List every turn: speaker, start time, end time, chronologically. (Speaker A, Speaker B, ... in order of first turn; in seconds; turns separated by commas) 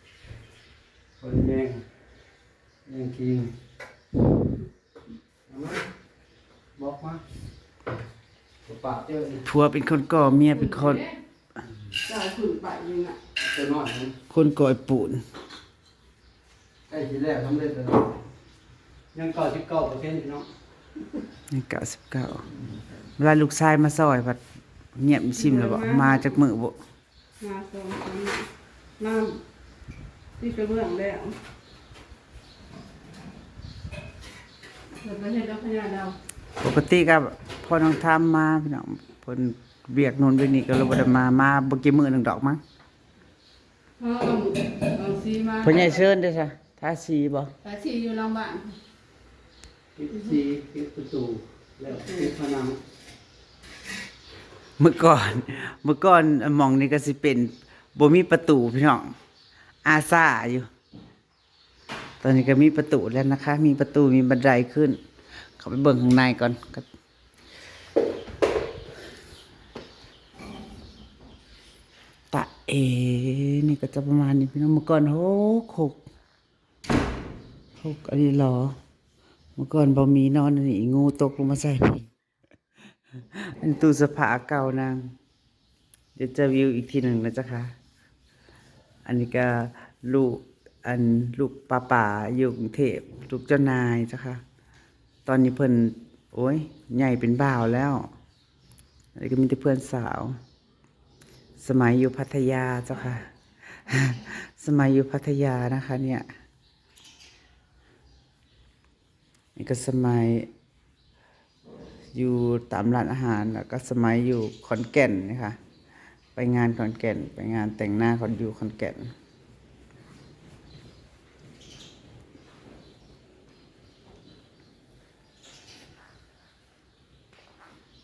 Speaker A: 1.2-1.8, Speaker A: 2.9-3.5, Speaker A: 5.5-5.9, Speaker A: 6.8-7.2, Speaker A: 8.7-9.4, Speaker B: 9.4-11.1, Speaker C: 12.0-13.2, Speaker A: 13.4-14.1, Speaker B: 14.3-15.2, Speaker A: 16.9-18.1, Speaker A: 19.1-20.5, Speaker B: 21.5-22.4, Speaker B: 23.2-24.4, Speaker B: 24.9-26.8, Speaker C: 25.4-26.3, Speaker C: 27.4-28.5, Speaker C: 29.0-29.4, Speaker C: 30.4-31.4, Speaker C: 35.0-36.2, Speaker B: 36.6-42.6, Speaker C: 44.0-46.0, Speaker B: 45.6-47.5, Speaker C: 47.6-48.8, Speaker A: 50.0-52.8, Speaker B: 54.8-59.1, Speaker B: 59.9-60.7, Speaker B: 62.2-65.0, Speaker B: 65.6-66.9, Speaker B: 72.3-76.0, Speaker B: 77.8-78.8, Speaker B: 79.6-82.1, Speaker B: 83.3-85.0, Speaker B: 86.2-87.7, Speaker B: 89.0-94.4, Speaker B: 95.2-98.1, Speaker B: 99.2-100.4, Speaker B: 101.6-103.2, Speaker B: 103.8-106.2, Speaker B: 109.5-110.5, Speaker B: 112.1-115.6, Speaker B: 116.4-119.1